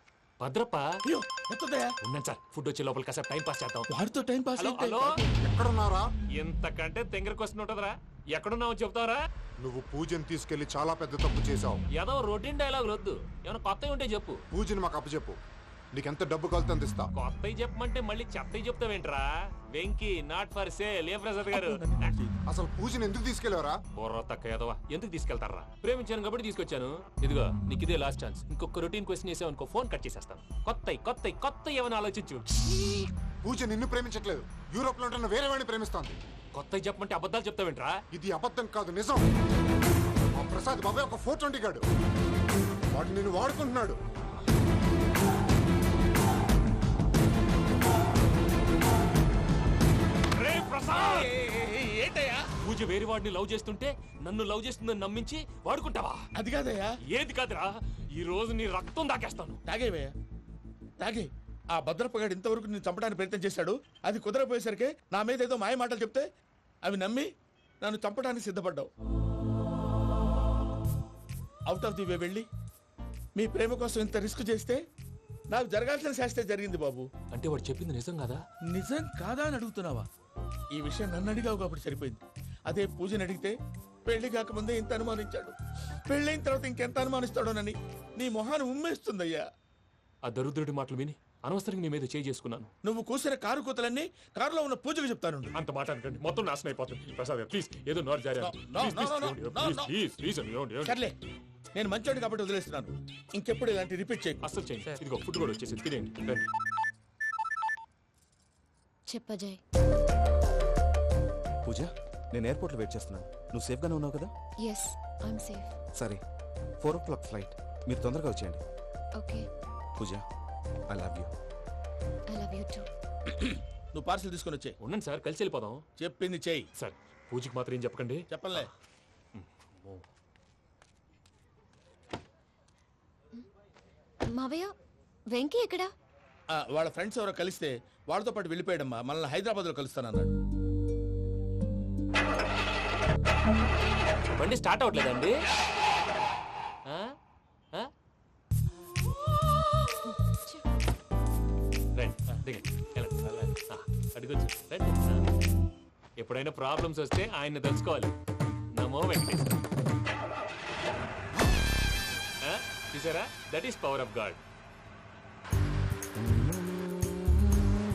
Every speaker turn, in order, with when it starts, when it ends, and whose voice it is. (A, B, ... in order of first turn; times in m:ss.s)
0:00.4-0:00.9 A
0:01.1-0:02.0 B
0:02.0-0:03.9 A
0:03.9-0:05.2 B
0:04.6-0:05.2 A
0:05.4-0:06.1 C
0:06.4-0:09.2 A
0:09.6-0:11.8 C
0:11.9-0:14.4 A
0:14.5-0:15.4 C
0:15.9-0:17.1 C
0:17.2-0:22.1 A
0:21.5-0:22.4 B
0:22.5-0:23.8 C
0:24.0-0:32.5 A
0:33.4-0:36.2 C
0:36.5-0:38.0 A
0:38.1-0:39.2 C
0:40.3-0:41.8 C
0:42.9-0:44.0 C
0:50.4-0:51.3 A
0:51.0-0:52.4 B
0:52.6-0:56.2 A
0:56.4-0:57.0 B
0:57.1-0:59.6 A
0:59.7-1:00.1 B
1:01.0-1:06.3 B
1:06.8-1:07.3 B
1:07.8-1:08.9 B
1:11.7-1:12.5 B
1:13.4-1:14.9 B
1:15.5-1:17.1 B
1:17.3-1:18.4 A
1:18.7-1:20.1 B
1:20.7-1:25.6 B
1:26.1-1:29.5 B
1:30.2-1:32.7 A
1:32.8-1:35.5 B
1:35.6-1:41.0 A
1:38.4-1:39.9 B
1:40.8-1:41.1 B
1:41.8-1:44.4 B
1:44.4-1:46.5 A
1:49.1-1:49.6 D
1:51.6-1:54.3 E
1:54.6-1:55.8 D
1:56.0-1:56.2 E
1:56.8-1:58.6 E
1:59.2-1:59.5 D
2:00.0-2:00.2 E
2:00.9-2:01.3 E
2:02.3-2:02.9 D
2:03.3-2:04.8 B
2:04.8-2:05.8 A
2:06.0-2:06.7 B
2:06.8-2:08.7 A
2:08.3-2:08.7 B
2:09.4-2:10.0 A
2:14.3-2:14.7 D
2:15.3-2:15.9 D
2:16.5-2:20.3 B
2:24.3-2:25.3 A
2:26.9-2:27.1 A
2:30.3-2:30.6 D
2:32.0-2:35.3 A
2:36.2-2:38.1 A
2:38.8-2:39.6 A
2:42.4-2:44.4 A
2:46.5-2:47.6 A